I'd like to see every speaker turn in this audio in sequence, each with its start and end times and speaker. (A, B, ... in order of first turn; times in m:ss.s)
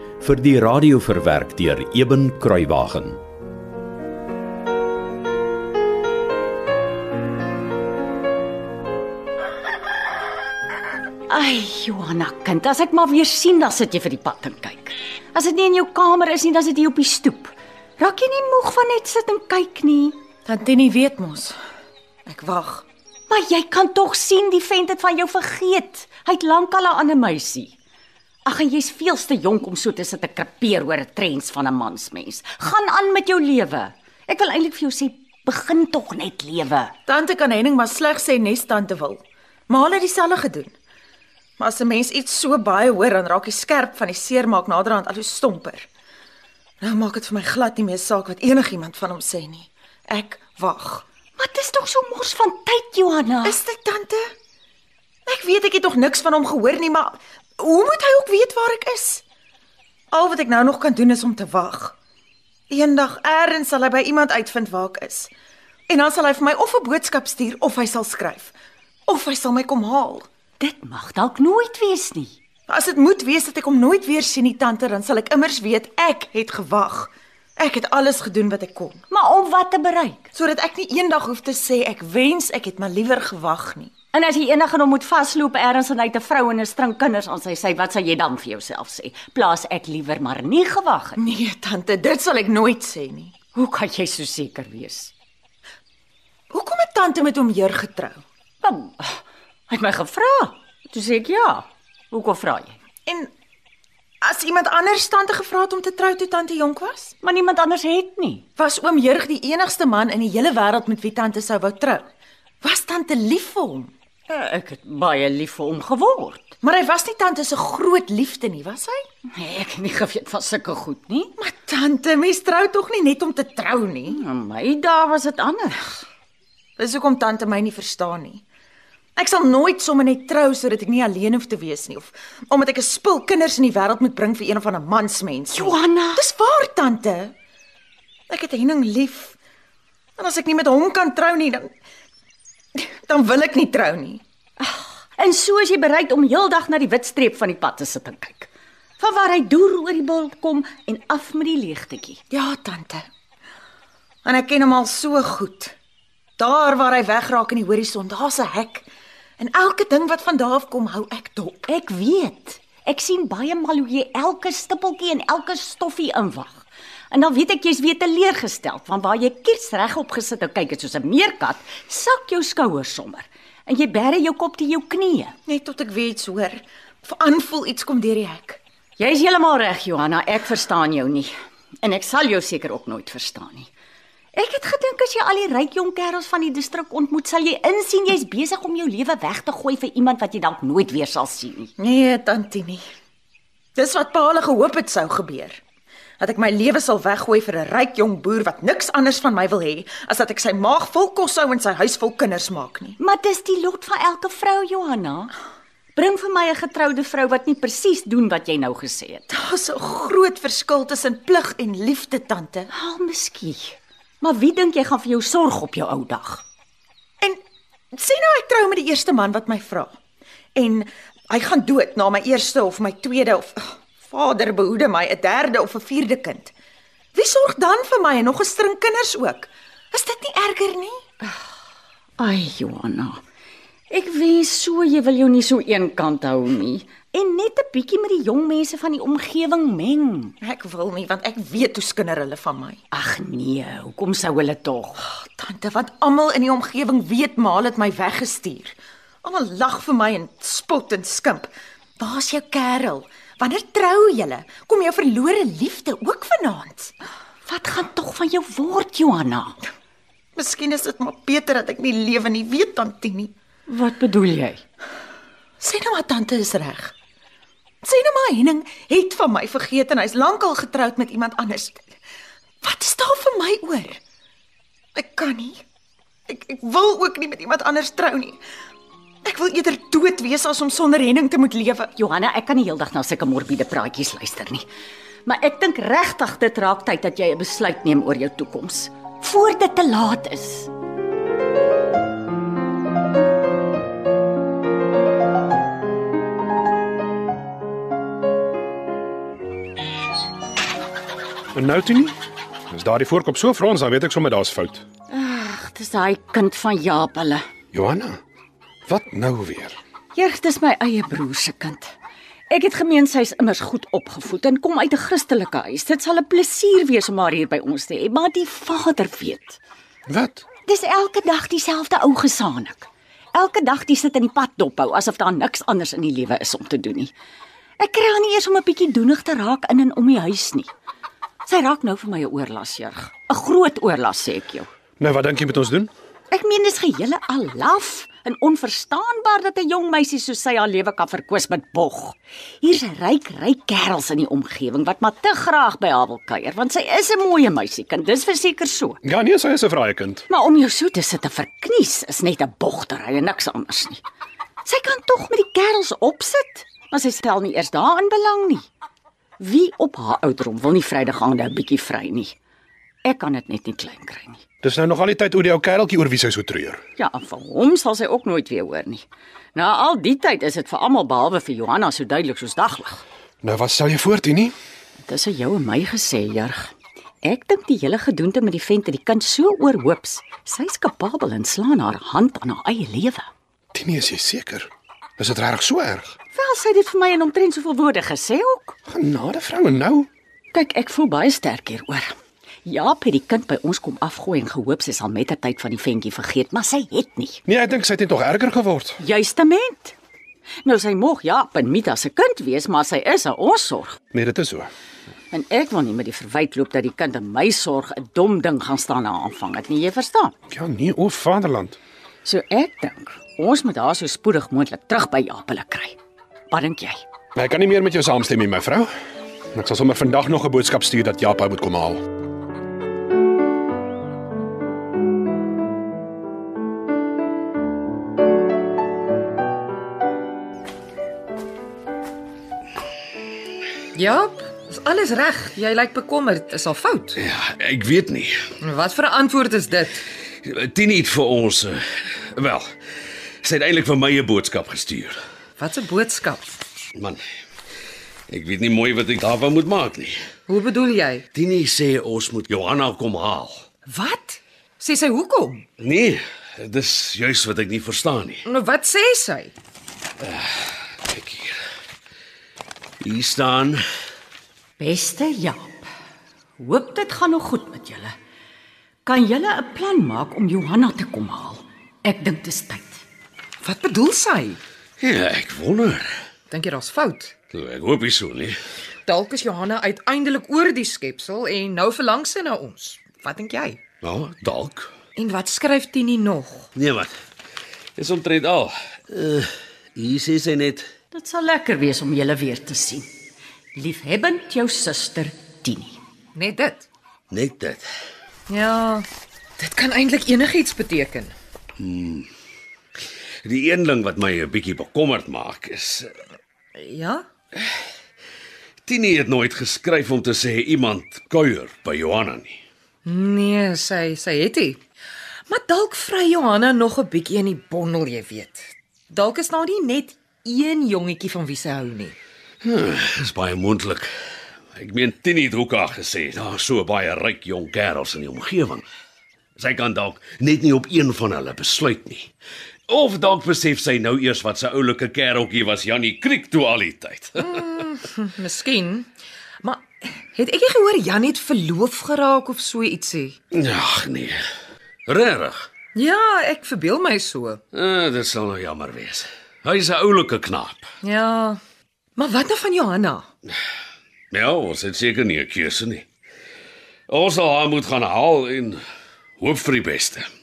0:00.2-0:03.2 A
0:11.3-0:20.2 B
0:20.5-0:21.5 C
0:22.2-0:22.8 C
0:23.3-0:27.8 B
0:28.4-0:36.9 B
0:37.1-0:40.7 C
0:41.6-0:45.9 C
0:46.8-0:51.0 C
0:51.4-0:53.6 B
0:53.4-0:54.3 C
0:55.3-0:59.2 C
1:00.1-1:02.0 C
1:02.7-1:05.3 C
1:05.9-1:08.5 C
1:09.1-1:10.3 C
1:10.6-1:12.4 B
1:12.7-1:19.0 C
1:19.1-1:20.3 B
1:20.3-1:23.9 C
1:24.1-1:31.2 B
1:31.2-1:33.3 C
1:33.5-1:35.1 B
1:36.5-1:38.2 C
1:38.6-1:42.8 B
1:44.2-1:47.1 C
1:47.2-1:48.4 B
1:48.6-1:52.1 C
1:52.6-1:53.9 C
1:54.3-1:56.5 B
1:56.6-1:59.0 C
1:59.4-2:01.3 B
2:01.4-2:04.2 C
2:04.1-2:06.1 B
2:06.8-2:08.4 C
2:09.2-2:17.3 C
2:15.5-2:16.2 B
2:18.3-2:19.3 C
2:20.2-2:21.7 C
2:22.8-2:24.2 C
2:24.6-2:32.2 B
2:32.3-2:33.1 C
2:34.2-2:35.7 C
2:36.4-2:38.9 C
2:39.4-2:41.7 C
2:41.7-2:55.3 B
2:55.5-2:58.6 C
2:59.0-3:01.3 B
3:01.8-3:03.7 B
3:04.3-3:11.7 B
3:11.8-3:12.8 C
3:13.8-3:15.6 C
3:16.2-3:23.0 C
3:23.0-3:25.3 B
3:25.9-3:29.3 B
3:29.3-3:32.7 C
3:32.7-3:36.4 B
3:37.9-3:39.9 C
3:40.6-3:46.5 C
3:47.1-3:51.0 C
3:52.2-3:53.2 B
3:53.9-4:00.3 B
4:00.4-4:02.8 C
4:02.9-4:05.0 B
4:05.0-4:16.9 C
4:17.4-4:19.5 B
4:20.4-4:23.3 C
4:23.7-4:24.6 B
4:25.6-4:26.9 C
4:27.8-4:31.8 C
4:32.6-4:34.0 C
4:34.9-4:35.6 C
4:36.3-4:38.4 C
4:39.2-4:41.9 C
4:41.9-4:44.6 B
4:45.2-4:50.7 B
5:01.5-5:02.2 D
5:02.7-5:04.8 D
5:05.1-5:07.4 B
5:07.7-5:08.2 D
5:08.8-5:09.8 D
5:10.1-5:11.9 B
5:12.5-5:19.6 B
5:20.1-5:20.4 D
5:20.6-5:27.1 B
5:27.8-5:30.7 B
5:31.4-5:34.7 B
5:35.0-5:35.9 D
5:36.3-5:49.0 B
5:49.0-5:50.2 D
5:50.3-5:54.0 B
5:54.6-5:58.6 B
5:59.4-6:02.3 B
6:03.0-6:04.4 B
6:04.6-6:06.8 D
6:07.0-6:13.0 B
6:13.4-6:14.5 D
6:15.0-6:16.7 B
6:17.2-6:23.3 B
6:23.7-6:26.1 D
6:26.3-6:28.8 B
6:28.9-6:30.1 D
6:30.5-6:32.1 B
6:32.6-6:37.4 B
6:37.4-6:39.0 D
6:39.0-6:39.9 B
6:40.6-6:44.0 B
6:44.1-6:44.7 D
6:45.3-6:50.3 B
6:50.5-6:51.8 D
6:52.2-6:56.0 B
6:56.5-6:57.0 B
6:57.3-6:58.9 D
6:59.5-7:02.0 D
7:13.9-7:17.2 E
7:17.2-7:18.4 F
7:18.6-7:20.0 E
7:20.4-7:21.8 F
7:22.3-7:22.6 F
7:23.4-7:25.2 F
7:25.6-7:26.6 E
7:27.0-7:27.2 F
7:28.3-7:30.2 F
7:30.5-7:31.2 E
7:31.3-7:33.6 F
7:33.9-7:35.6 E
7:35.8-7:38.4 F
7:38.4-7:39.5 E
7:40.2-7:41.6 F
7:43.0-7:43.8 F
7:44.8-7:45.8 B
7:46.6-7:48.1 B
7:49.0-7:53.0 B
7:53.6-7:54.6 E
7:55.0-7:56.1 F
7:56.5-7:57.3 E
7:57.5-7:58.6 F
7:59.0-8:03.8 E
8:04.0-8:04.9 F
8:05.2-8:06.7 E
8:06.7-8:07.1 F
8:08.0-8:10.9 F
8:11.1-8:13.1 B
8:13.7-8:16.0 B
8:16.3-8:16.8 E
8:17.3-8:17.8 F
8:18.5-8:19.1 E
8:19.6-8:21.3 E
8:21.8-8:22.3 F
8:23.4-8:26.1 F
8:26.8-8:27.2 E
8:28.8-8:32.6 F
8:33.0-8:34.8 E
8:35.5-8:42.1 E
8:42.6-8:44.1 F
8:44.8-8:48.8 F
8:49.6-8:52.3 F
8:52.9-8:57.6 F
8:57.5-8:59.1 E
8:59.6-9:03.4 E
9:03.5-9:04.4 F
9:05.1-9:05.7 F
9:06.0-9:07.6 E
9:07.7-9:10.8 F
9:11.0-9:11.6 E
9:12.2-9:13.2 E
9:14.3-9:16.1 F
9:17.1-9:18.8 F
9:19.4-9:20.3 F